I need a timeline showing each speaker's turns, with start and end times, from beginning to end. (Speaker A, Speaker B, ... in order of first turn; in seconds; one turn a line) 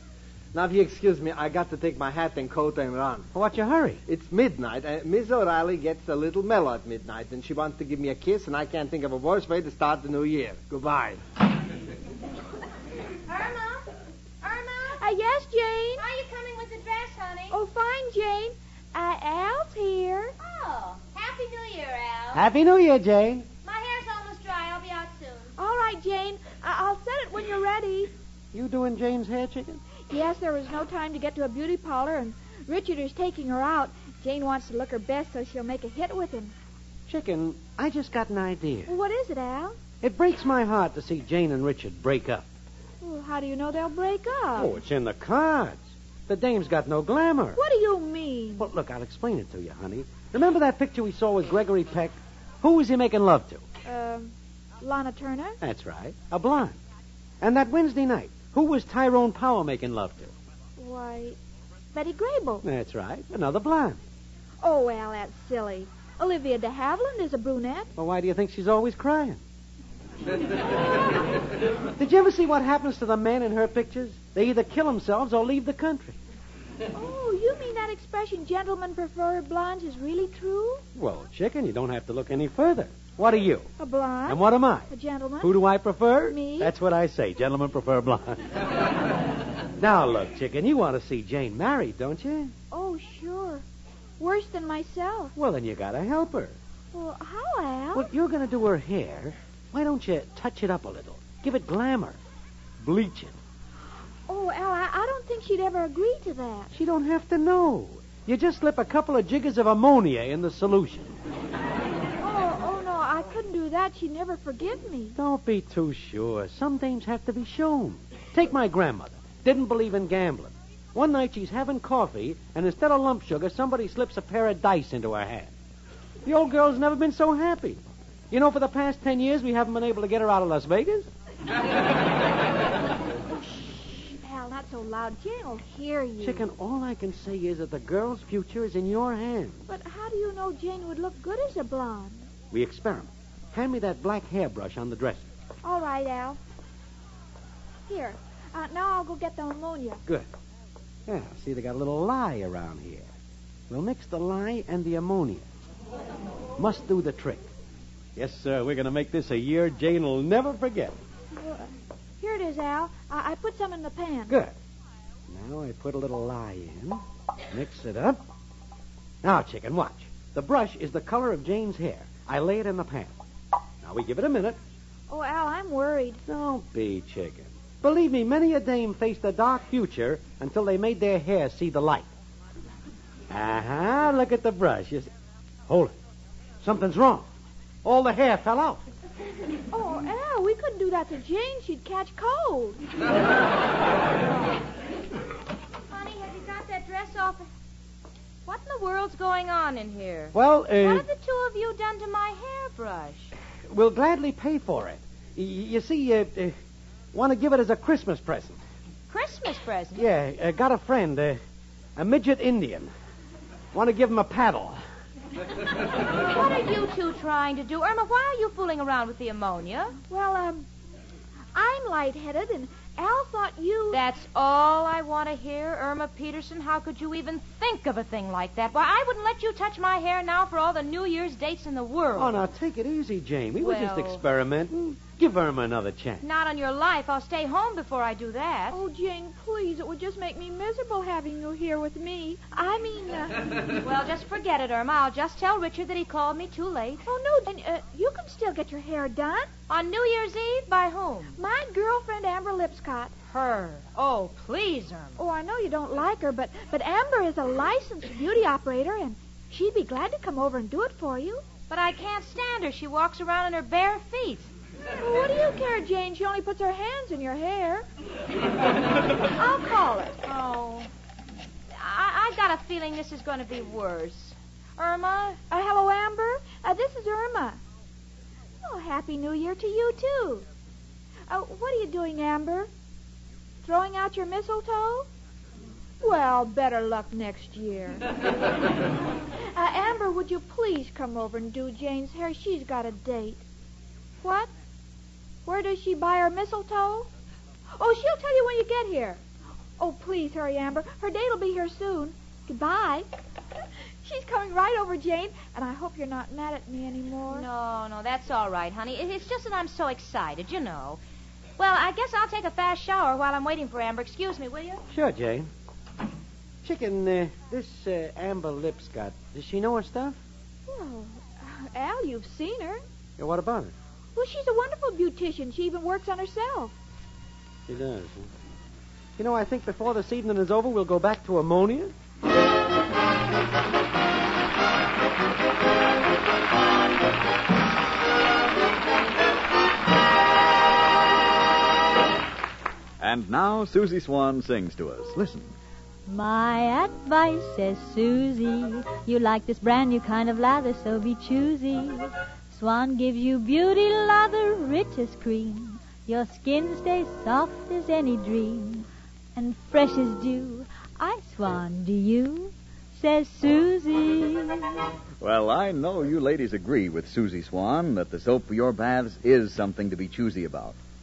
Speaker A: 0.5-3.3
Speaker B: 3.3-4.0
Speaker A: 4.1-11.2
Speaker C: 13.3-15.0
Speaker D: 15.0-16.1
Speaker C: 16.0-17.6
Speaker D: 17.5-20.4
Speaker C: 20.4-22.4
Speaker B: 22.3-23.5
Speaker C: 23.6-25.5
Speaker D: 25.6-28.1
Speaker B: 28.5-29.8
Speaker D: 30.1-36.5
Speaker B: 37.1-38.9
Speaker D: 38.9-39.8
Speaker B: 40.0-42.5
Speaker D: 43.0-44.7
Speaker B: 44.6-47.6
Speaker D: 47.6-48.7
Speaker B: 48.6-53.6
Speaker D: 53.9-55.6
Speaker B: 55.6-56.8
Speaker B: 57.4-60.3
Speaker D: 60.8-61.4
Speaker D: 61.9-62.6
Speaker B: 62.6-64.0
Speaker D: 64.6-67.9
Speaker B: 68.0-69.4
Speaker B: 72.0-76.2
Speaker D: 76.9-80.8
Speaker B: 81.0-83.7
Speaker D: 83.8-85.6
Speaker B: 84.3-84.9
Speaker B: 85.4-88.4
Speaker D: 86.2-86.7
Speaker B: 89.8-92.5
Speaker D: 92.7-93.6
Speaker D: 94.2-95.3
Speaker B: 95.4-96.5
Speaker D: 96.9-98.1
Speaker B: 97.9-102.2
Speaker B: 102.8-103.3
Speaker D: 104.3-106.7
Speaker B: 106.7-111.1
Speaker D: 112.2-115.2
Speaker B: 115.2-125.5
Speaker B: 126.2-127.8
Speaker B: 128.3-131.1
Speaker D: 133.3-136.5
Speaker B: 136.2-139.6
Speaker D: 139.7-142.3
Speaker B: 142.5-145.3
Speaker D: 145.6-146.4
Speaker D: 147.9-150.0
Speaker B: 151.1-153.1
Speaker B: 153.7-155.5
Speaker B: 156.6-157.5
Speaker B: 158.2-161.0
Speaker D: 161.3-161.7
Speaker D: 162.2-164.3
Speaker B: 165.3-167.0
Speaker B: 167.5-168.2
Speaker B: 169.2-173.1
Speaker B: 173.8-174.6
Speaker D: 175.1-176.2
Speaker B: 176.3-182.1
Speaker B: 183.3-185.1
Speaker B: 186.6-187.3
Speaker B: 187.8-188.8
Speaker D: 189.7-192.8
Speaker C: 195.9-197.4
Speaker C: 198.5-203.3
Speaker B: 200.3-201.1
Speaker B: 203.7-206.6
Speaker B: 207.1-208.6
Speaker C: 209.1-210.0
Speaker B: 209.9-211.4
Speaker B: 212.0-212.9
Speaker B: 213.7-214.8
Speaker C: 216.2-220.0
Speaker D: 220.1-220.7
Speaker D: 221.6-224.0
Speaker C: 223.9-232.4
Speaker B: 232.2-236.2
Speaker C: 233.6-234.2
Speaker C: 236.2-238.8
Speaker D: 238.7-243.6
Speaker C: 243.8-247.0
Speaker D: 247.1-249.5
Speaker C: 249.7-251.4
Speaker D: 251.4-253.1
Speaker C: 253.3-255.2
Speaker D: 255.2-261.4
Speaker C: 261.7-264.5
Speaker D: 265.0-267.9
Speaker D: 269.4-270.2
Speaker C: 270.2-270.9
Speaker C: 271.7-275.4
Speaker D: 275.5-277.6
Speaker D: 278.6-280.4
Speaker D: 281.3-282.7
Speaker D: 283.6-285.1
Speaker D: 286.0-288.1
Speaker D: 289.5-293.4
Speaker D: 294.2-294.5
Speaker D: 295.5-297.1
Speaker D: 297.8-299.2
Speaker D: 299.8-303.1
Speaker D: 304.0-307.5
Speaker C: 307.3-311.0
Speaker C: 311.6-314.8
Speaker B: 314.9-315.5
Speaker B: 316.6-320.2
Speaker D: 320.7-322.8
Speaker B: 323.2-323.7
Speaker D: 324.1-326.7
Speaker B: 327.7-328.3
Speaker B: 329.2-331.9
Speaker E: 343.0-345.5
Speaker F: 346.1-364.8
Speaker E: 365.2-370.8